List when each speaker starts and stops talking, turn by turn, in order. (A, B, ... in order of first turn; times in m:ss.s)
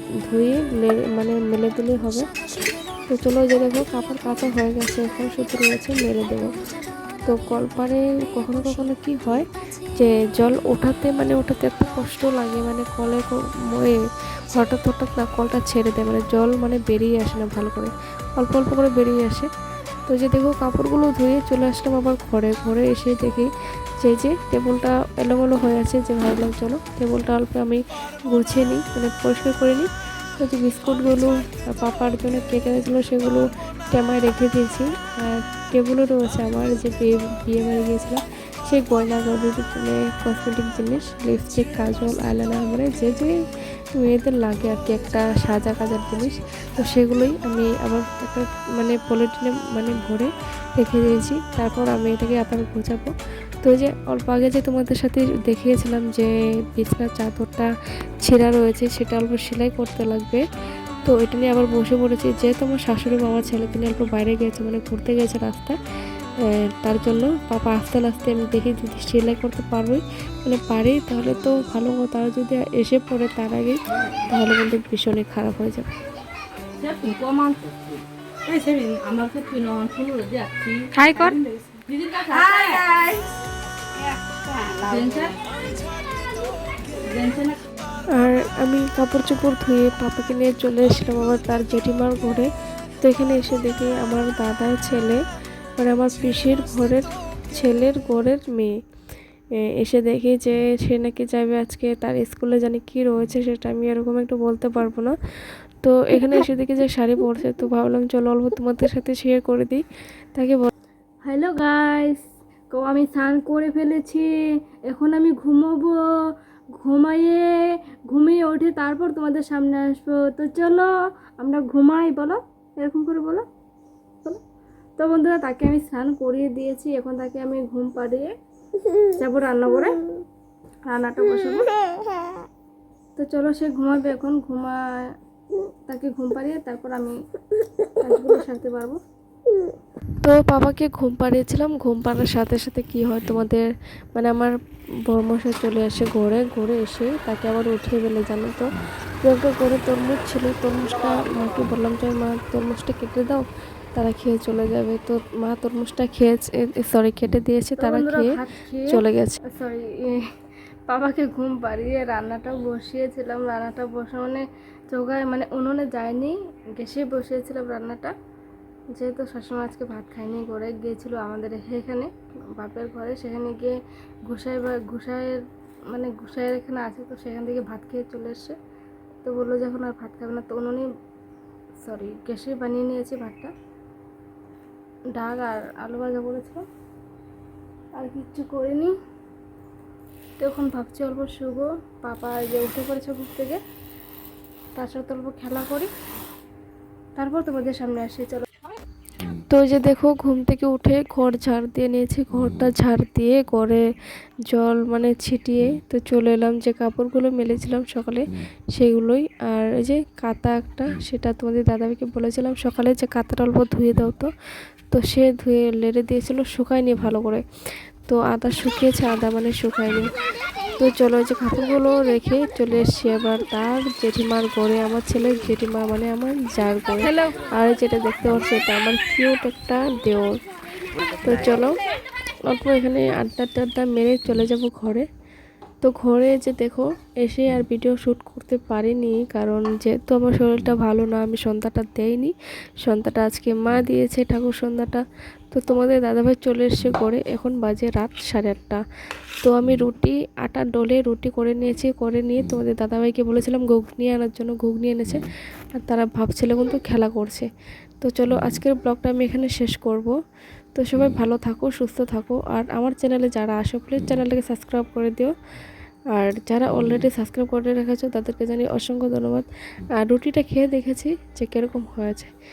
0:00.3-0:02.3 A
0:03.1-0:06.5 A
0:07.2-0:14.0 A
0:14.5-0:19.5 A
0:20.1-0:43.3 A
0:44.0-0:53.1 A
0:53.6-0:57.7 A
0:58.2-1:00.4 A
1:01.0-1:05.8 A
1:06.4-1:13.8 A
1:14.3-1:15.9 A
1:16.8-1:23.1 B
1:20.9-1:21.4 C
1:24.5-1:25.4 B
1:27.0-1:27.6 B
1:28.2-1:32.5 A
1:33.0-1:35.2 A
1:35.8-1:38.7 A
1:39.6-1:45.2 A
1:45.8-1:49.8 A
1:50.3-1:50.7 A
1:51.2-1:54.3 C
1:54.9-1:56.0 C
1:56.8-1:57.6 C
1:58.1-2:03.4 C
2:05.0-2:08.3 C
2:09.1-2:10.0 C
2:10.9-2:11.7 C
2:13.2-2:15.1 C
2:15.9-2:17.2 C
2:18.0-2:19.0 C
2:20.2-2:24.5 A
2:25.1-2:33.4 A
2:34.0-2:38.3 A
2:37.8-2:40.2 C
2:38.9-2:39.4 A
2:40.9-2:48.1 C
2:48.9-2:53.8 C
2:54.3-2:58.6 C
2:59.2-3:00.9 C
3:01.8-3:03.5 C
3:05.2-3:06.6 C
3:08.0-3:08.9 C
3:10.4-3:13.6 C
3:14.8-3:15.9 C
3:17.2-3:18.5 C
3:19.2-3:23.8 A
3:24.5-3:34.3 A
3:34.9-3:37.4 A
3:38.1-3:40.1 A
3:40.8-3:50.4 A
3:47.0-3:47.3 C
3:51.2-3:51.8 A
3:52.5-3:55.0 A
3:55.8-4:08.8 A
4:09.4-4:15.2 A
4:15.8-4:17.5 A
4:18.0-4:20.1 A
4:20.7-4:25.3 A
4:26.1-4:29.4 A
4:30.0-4:32.3 A